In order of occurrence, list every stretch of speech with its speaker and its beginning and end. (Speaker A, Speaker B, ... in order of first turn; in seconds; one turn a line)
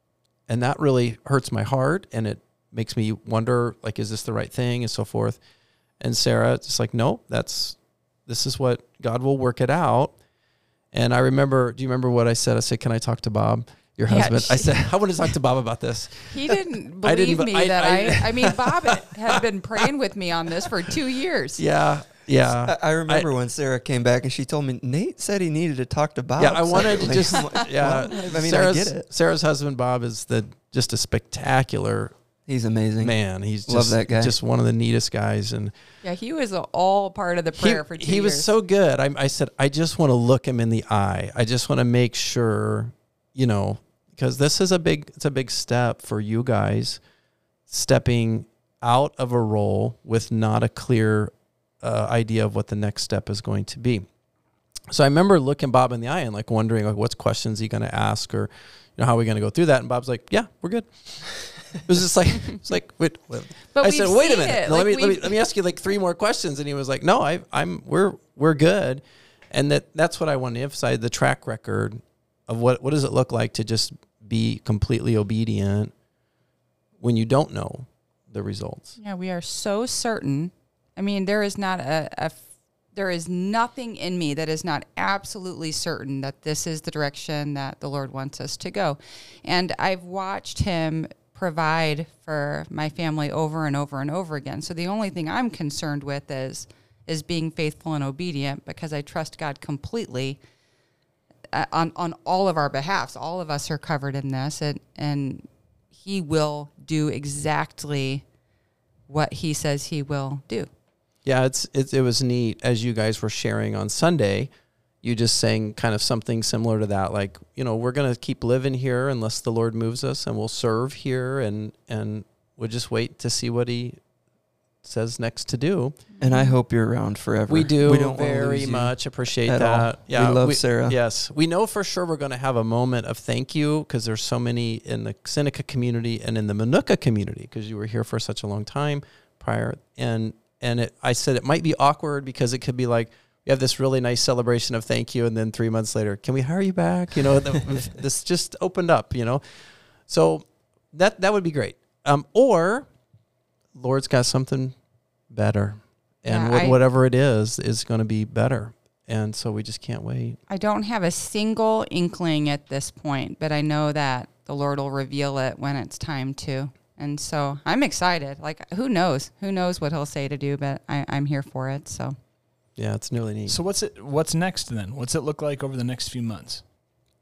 Speaker A: 0.5-5.4
Speaker A: 6.0-10.2
Speaker A: 10.9-19.4
Speaker B: 14.1-14.8
Speaker B: 16.3-21.6
Speaker A: 21.6-23.3
Speaker C: 22.6-29.1
Speaker A: 26.4-32.1
Speaker C: 32.5-34.3
Speaker A: 33.0-35.7
Speaker B: 36.0-38.5
Speaker A: 37.6-47.0
Speaker A: 47.7-54.1
Speaker A: 54.9-75.9
Speaker B: 63.7-65.3
Speaker A: 77.0-78.9
Speaker B: 79.0-82.4
Speaker B: 82.9-100.4
Speaker B: 101.5-108.2
Speaker B: 109.1-110.7
Speaker A: 111.2-114.5
Speaker A: 115.0-124.0
Speaker A: 124.8-126.0
Speaker B: 126.1-126.6
Speaker C: 126.2-131.0
Speaker A: 127.5-152.9
Speaker A: 153.7-154.8
Speaker A: 155.3-160.4
Speaker B: 156.2-156.8
Speaker B: 160.5-172.2
Speaker A: 172.8-173.6
Speaker D: 173.5-176.6